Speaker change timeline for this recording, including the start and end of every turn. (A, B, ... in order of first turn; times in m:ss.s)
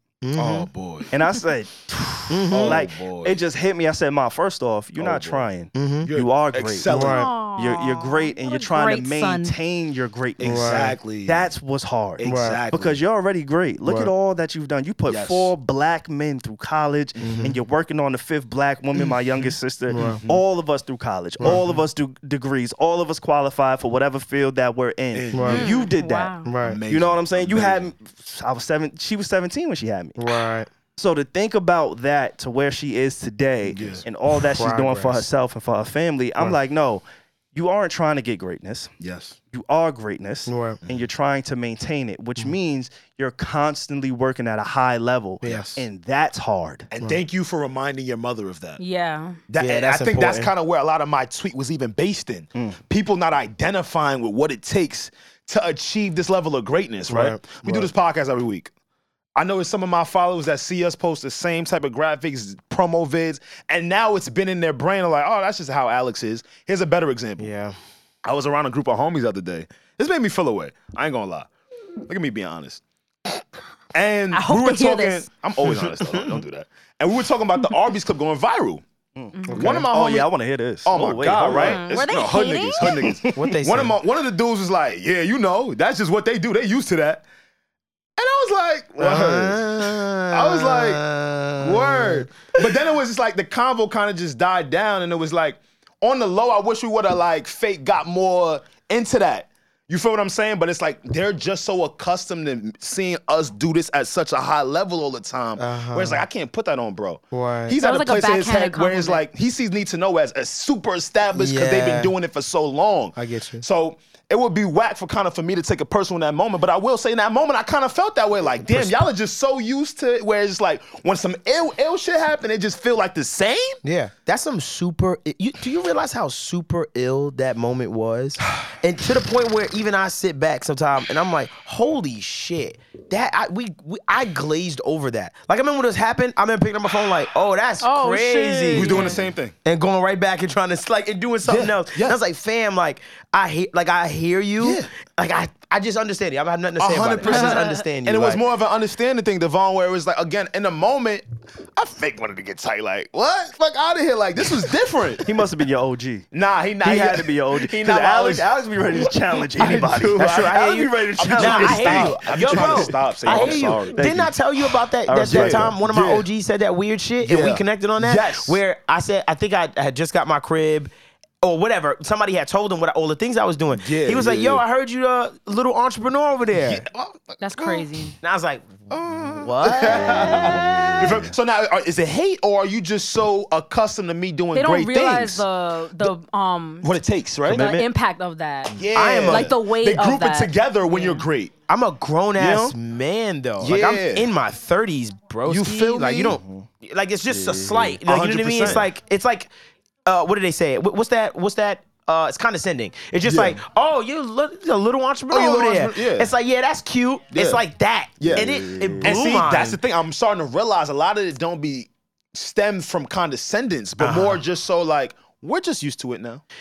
0:00.2-0:00.7 A
0:00.4-0:01.1 B
0:01.1-0:30.3 C
0:02.3-0:02.8 A
0:02.5-0:03.4 B
0:05.0-0:05.5 B
0:05.8-0:06.1 A
0:06.0-0:07.3 B
0:06.9-0:07.3 A
0:07.0-0:09.6 D
0:10.4-0:11.5 B
0:10.4-0:10.9 A
0:12.2-0:13.0 B
0:12.2-0:12.6 A
0:15.1-0:15.5 B
0:17.2-0:17.5 A
0:19.9-0:20.2 A
0:20.0-0:20.4 B
0:21.4-0:21.7 A
0:25.1-0:25.9 B
0:25.3-0:25.6 A
0:25.5-0:26.5 D
0:26.4-0:26.8 A
0:26.6-0:27.9 B
0:30.2-0:30.7 A
0:31.0-0:38.9 C
0:33.7-0:34.0 B
0:34.6-0:35.2 A
0:39.0-0:39.4 B
0:39.5-0:46.9 C
0:40.5-0:40.8 A
0:45.4-0:45.8 A
0:45.4-0:45.7 B
0:46.9-0:48.8 B
0:48.8-0:49.4 D
0:49.5-0:58.7 B
0:49.6-0:50.5 A
0:57.1-0:57.9 A
0:59.4-1:07.5 B
1:07.4-1:07.8 A
1:08.2-1:11.5 B
1:12.0-1:12.8 B
1:13.9-1:18.8 B
1:14.3-1:15.3 D
1:15.8-1:16.4 A
1:19.2-1:21.8 C
1:19.4-1:19.8 D
1:19.5-1:20.3 B
1:19.5-1:19.8 A
1:20.8-1:27.2 B
1:21.5-1:23.1 D
1:23.3-1:24.0 A
1:28.2-1:31.0 B
1:29.0-1:32.3 A
1:31.6-2:03.8 B
1:45.6-1:46.2 A
1:47.3-1:47.8 A
1:47.8-1:49.2 D
1:51.3-1:52.1 A
1:53.2-1:53.6 A
1:58.7-1:59.1 A
2:03.8-2:28.4 A
2:17.8-2:19.2 D
2:18.7-2:19.5 B
2:21.4-2:22.2 B
2:24.6-2:24.9 B
2:26.8-2:31.2 B
2:27.2-2:27.7 D
2:31.8-2:35.3 B
2:35.2-2:36.3 C
2:36.3-2:40.6 B
2:36.8-2:44.3 C
2:40.1-2:50.9 A
2:41.2-2:44.3 B
2:45.0-2:45.7 C
2:45.2-2:46.3 B
2:47.2-2:48.6 B
2:51.4-2:56.9 A
2:53.8-2:54.6 B
2:56.6-2:58.0 B
2:57.4-2:58.2 D
2:58.2-3:01.2 A
2:58.9-3:05.4 B
3:04.5-3:06.9 D
3:06.8-3:07.8 B
3:07.5-3:07.8 C
3:07.5-3:11.3 D
3:08.7-3:11.5 B
3:08.9-3:09.5 A
3:11.7-3:19.5 A
3:12.4-3:12.8 B
3:13.6-3:14.3 B
3:15.4-3:16.4 B
3:16.3-3:16.7 C
3:17.3-3:18.0 C
3:18.0-3:18.9 B
3:20.1-3:29.8 A
3:23.2-3:23.6 B
3:25.3-3:26.3 B
3:27.3-3:27.6 B
3:28.2-3:36.4 B
3:28.3-3:29.2 C
3:34.0-3:34.4 A